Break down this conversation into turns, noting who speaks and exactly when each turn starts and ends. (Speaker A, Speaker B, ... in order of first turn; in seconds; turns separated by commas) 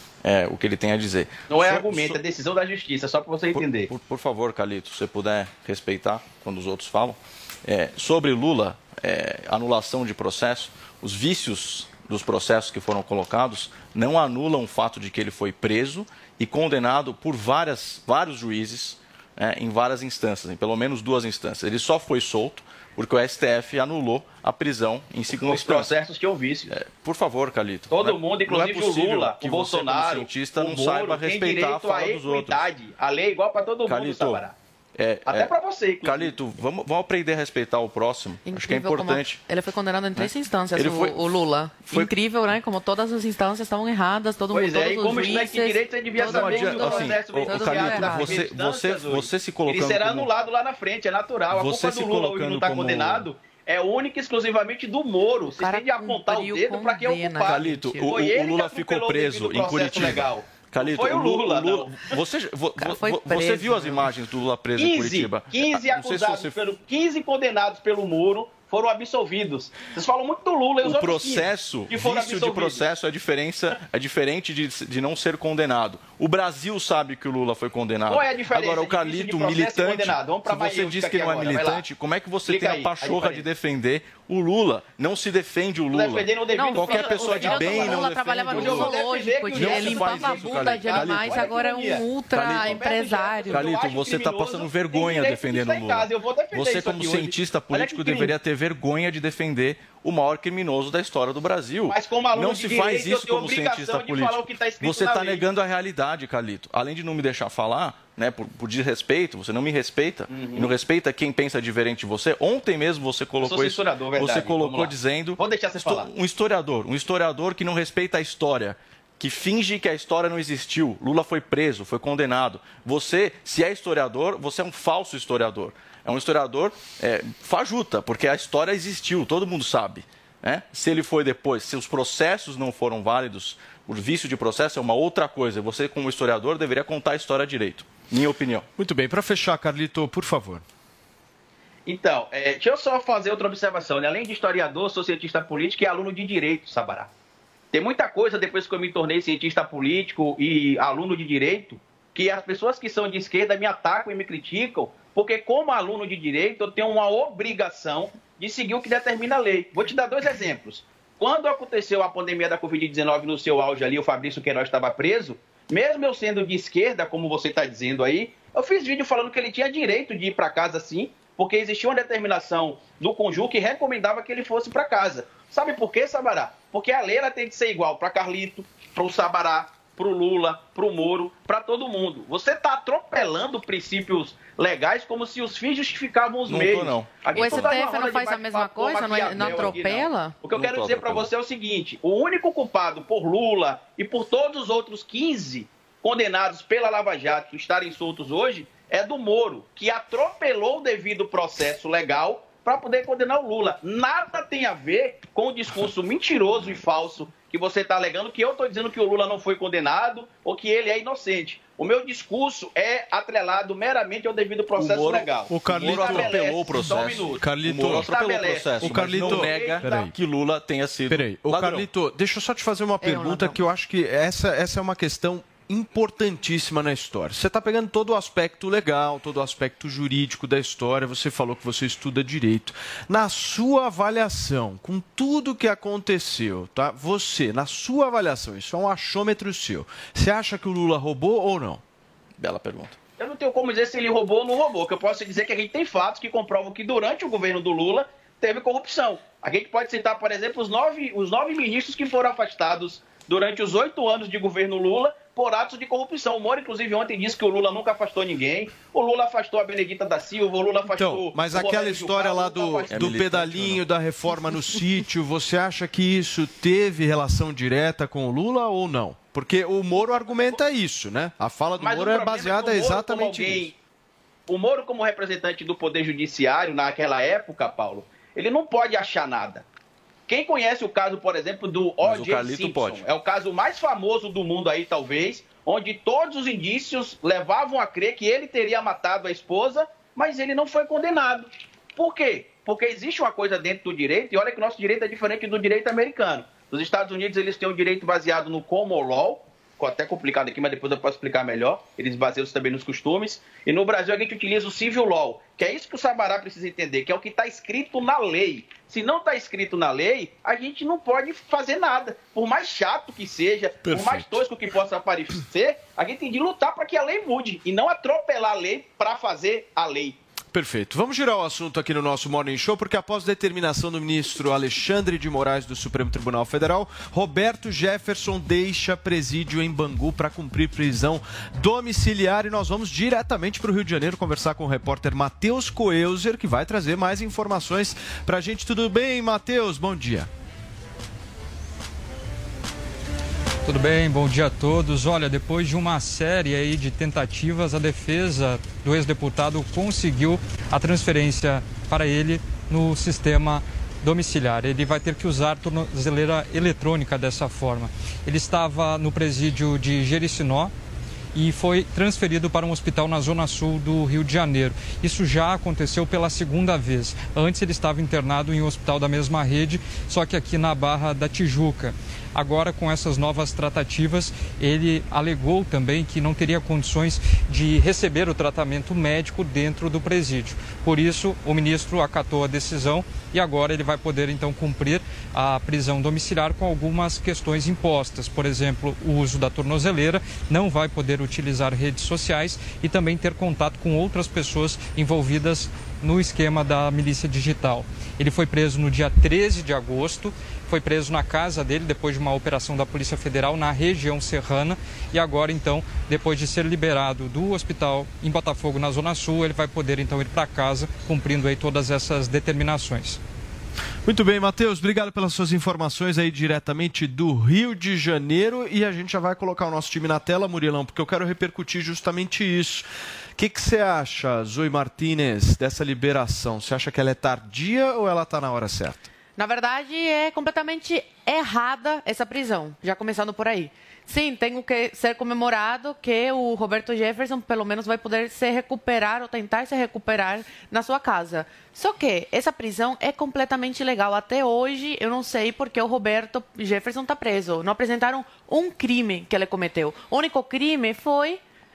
Speaker A: 0.2-2.2, Speaker B: 1.5-3.9, Speaker A: 3.5-25.9, Speaker B: 25.4-26.7, Speaker A: 26.7-32.7, Speaker B: 27.9-34.5, Speaker A: 33.9-39.4, Speaker B: 35.3-36.3, Speaker C: 38.5-48.4, Speaker A: 40.2-41.3, Speaker A: 41.8-42.1, Speaker B: 44.5-62.1, Speaker A: 46.1-50.3, Speaker A: 51.5-53.3, Speaker C: 55.5-58.1, Speaker A: 57.4-66.7, Speaker C: 62.8-64.1, Speaker B: 64.8-72.8, Speaker A: 70.8-89.0, Speaker B: 78.1-81.8, Speaker B: 82.5-83.4, Speaker B: 85.9-98.3, Speaker C: 86.5-93.6, Speaker A: 89.5-91.5, Speaker A: 92.3-92.8, Speaker A: 93.5-138.6, Speaker B: 101.9-105.4, Speaker B: 110.3-110.7, Speaker B: 113.4-116.1, Speaker D: 138.8-140.6, Speaker B: 141.8-147.1, Speaker B: 147.7-219.9, Speaker A: 186.5-187.8, Speaker C: 187.3-190.3, Speaker A: 189.4-189.7, Speaker A: 190.5-191.3, Speaker A: 214.8-221.9, Speaker D: 215.5-216.3, Speaker D: 217.4-218.1, Speaker D: 218.8-220.1, Speaker D: 221.1-241.8, Speaker C: 223.0-223.6, Speaker A: 242.4-242.9, Speaker B: 243.2-263.2, Speaker D: 260.9-273.7, Speaker A: 262.9-263.8, Speaker B: 269.9-270.6, Speaker B: 271.8-273.7, Speaker B: 274.5-279.6, Speaker B: 280.3-320.2, Speaker A: 282.0-283.0, Speaker D: 313.8-314.4, Speaker D: 320.5-340.3, Speaker E: 343.6-360.7, Speaker E: 361.3-413.2, Speaker D: 414.1-429.1, Speaker C: 429.4-451.4